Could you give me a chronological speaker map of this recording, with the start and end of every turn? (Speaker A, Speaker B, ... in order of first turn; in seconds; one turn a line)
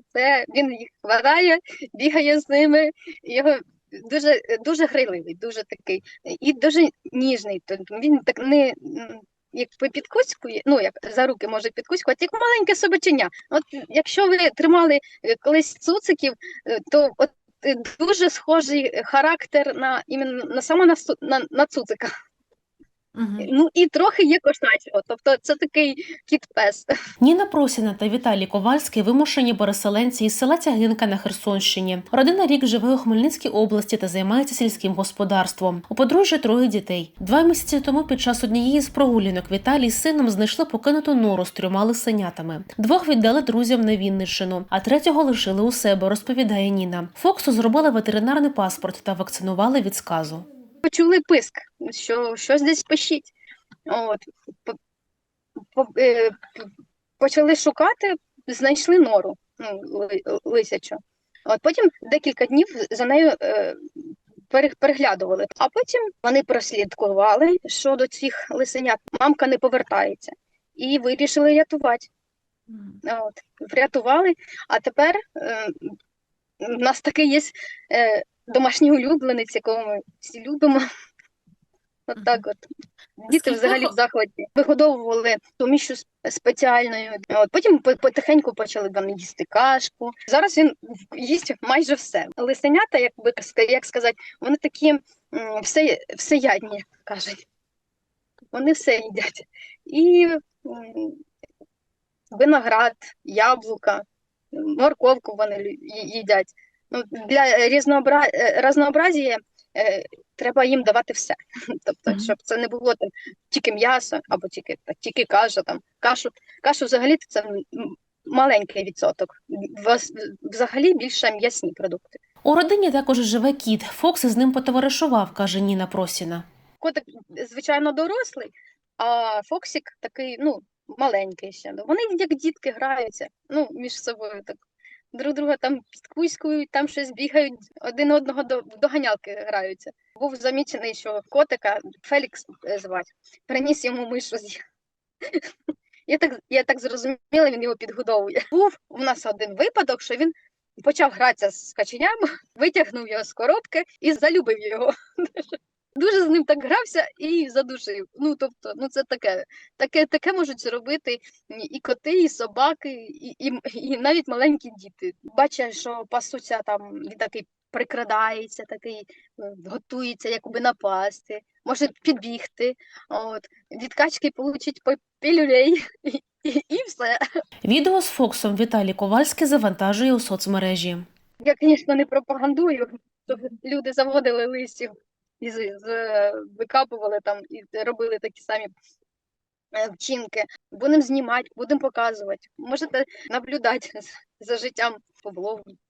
Speaker A: 0.1-22.1
Speaker B: 23.2-23.5
Speaker A: 23.4-26.9
Speaker B: 27.2-50.5
Speaker A: 50.9-53.3
Speaker A: 53.9-54.8
Speaker A: 55.8-56.7
Speaker A: 57.2-63.9
Speaker A: 64.5-72.1
Speaker B: 72.7-73.0
Speaker A: 73.0-75.9
Speaker A: 76.6-80.8
Speaker A: 82.1-82.6
Speaker A: 83.2-97.4
Speaker B: 83.3-83.9
Speaker A: 98.5-101.2
Speaker A: 102.3-122.2
Speaker B: 122.4-126.5
Speaker A: 126.8-134.6
Speaker A: 135.1-144.6
Speaker A: 146.1-177.2
Speaker B: 177.7-181.1
Speaker A: 181.4-188.7
Speaker A: 189.8-195.7